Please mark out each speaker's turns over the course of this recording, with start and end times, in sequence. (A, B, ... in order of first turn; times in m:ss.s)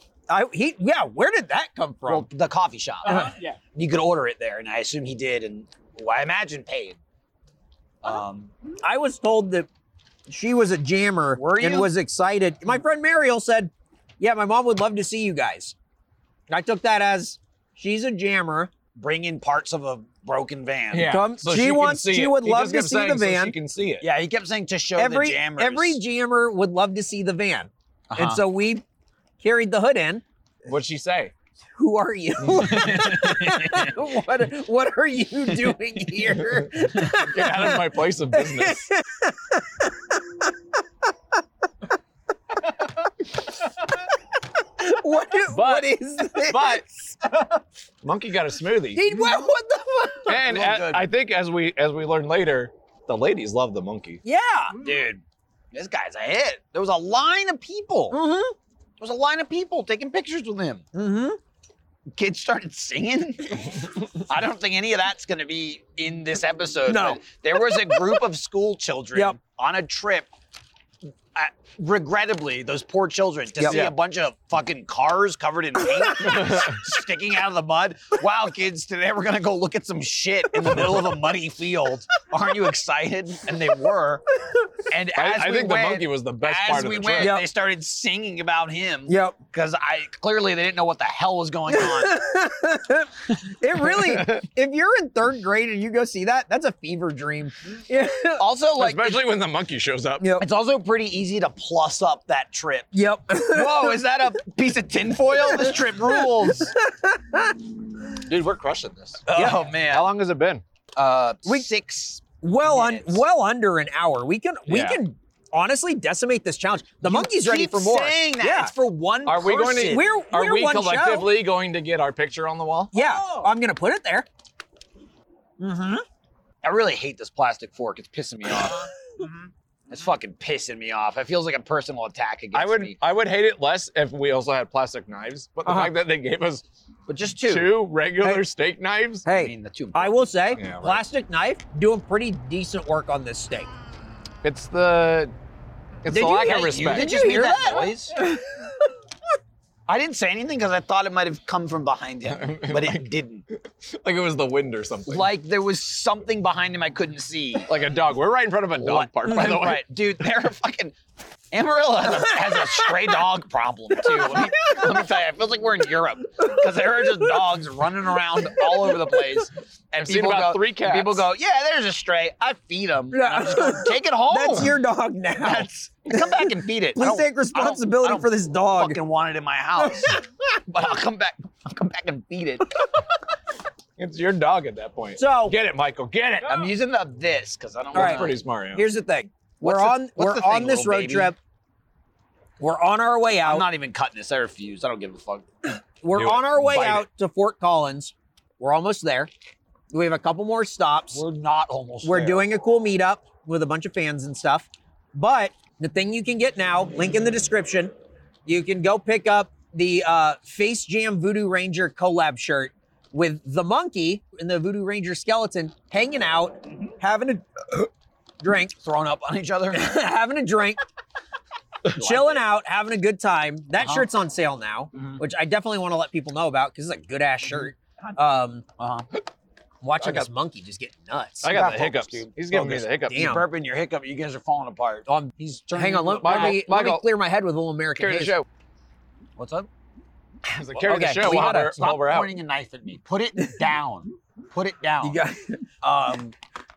0:00.3-0:02.3 A
0:02.1-0:07.0 B
0:03.1-0:03.3 A
0:08.0-0:08.5 B
0:08.8-0:09.7 A
0:10.3-0:15.8 A
0:11.4-0:11.9 B
0:16.5-0:18.7 A
0:19.0-0:21.2 B
0:20.9-0:24.1 C
0:21.1-0:23.6 A
0:24.0-0:26.0 B
0:25.0-0:28.8 A
0:28.1-0:28.4 B
0:29.4-0:30.2 A
0:30.6-0:31.3 C
0:31.8-0:40.4 A
0:32.6-0:34.0 B
0:37.0-0:38.9 C
0:44.8-0:46.5 A
0:45.5-0:46.8 C
0:45.6-0:47.4 B
0:48.0-0:49.2 C
0:49.0-0:50.4 A
0:50.3-0:51.0 B
0:50.3-0:54.2 C
0:54.2-0:54.8 A
0:54.8-0:58.2 B
0:58.1-0:58.5 A
0:59.0-1:00.8 B
1:00.9-1:01.4 A
1:02.1-1:10.3 B
1:06.9-1:07.2 A
1:11.4-1:24.2 B
1:13.7-1:14.0 C
1:16.4-1:16.8 C
1:24.9-1:32.2 B
1:25.2-1:27.4 C
1:27.2-1:27.5 A
1:29.1-1:29.4 A
1:31.7-1:38.4 A
1:34.0-1:34.4 C
1:38.4-1:39.2 B
1:38.8-1:40.3 C
1:40.2-1:40.4 A
1:40.4-1:46.8 B
1:42.9-1:44.0 A
1:46.7-1:47.6 A
1:48.2-1:50.6 C
1:49.3-1:50.1 B
1:49.3-1:49.6 A
1:51.0-1:53.2 B
1:52.4-1:58.7 A
1:54.7-1:55.0 C
1:57.0-2:00.1 B
1:59.2-2:02.9 C
1:59.8-2:01.3 A
2:02.9-2:04.3 A
2:03.0-2:03.2 B
2:05.6-2:06.0 A
2:06.6-2:08.9 B
2:09.9-2:13.0 B
2:12.5-2:16.6 C
2:15.6-2:15.9 A
2:17.1-2:17.8 B
2:17.4-2:19.2 C
2:19.2-2:23.7 A
2:19.3-2:20.3 B
2:20.6-2:21.0 C
2:24.4-2:25.3 C
2:26.0-2:27.1 C
2:26.1-2:28.7 A
2:26.3-2:28.2 B
2:29.9-2:33.4 B
2:32.3-2:35.3 C
2:35.1-2:37.7 B
2:37.7-2:39.9 C
2:38.8-2:41.0 B
2:41.5-2:54.8 B
2:50.0-2:51.3 C
2:53.1-2:56.2 A
2:55.4-3:02.8 B
2:57.0-2:59.0 A
2:59.8-3:00.2 A
3:04.0-3:06.7 C
3:05.2-3:05.6 A
3:06.4-3:08.4 B
3:07.9-3:08.9 C
3:07.9-3:11.4 A
3:09.6-3:11.3 B
3:12.6-3:13.7 A
3:13.4-3:15.5 B
3:16.0-3:19.3 A
3:16.2-3:16.7 C
3:16.7-3:17.0 B
3:19.9-3:21.2 A
3:21.1-3:22.5 B
3:22.0-3:27.9 A
3:28.5-3:37.9 A
3:38.4-3:38.8 A
3:38.8-3:40.0 B
3:39.7-3:40.8 A
3:41.9-3:48.6 A
3:41.9-3:42.4 B
3:43.8-3:44.1 B
3:45.0-3:45.2 B
3:48.8-3:49.1 B
3:49.8-3:51.6 A
3:50.0-3:50.3 C
3:51.4-3:53.3 C
3:51.5-3:56.6 B
3:53.0-3:53.4 A
3:55.1-3:58.4 A
3:56.2-3:57.1 C
3:58.0-3:58.5 C
3:59.4-3:59.7 B
4:00.4-4:02.4 C
4:00.8-4:01.8 A
4:01.1-4:05.2 B
4:05.0-4:05.6 A
4:05.8-4:06.3 B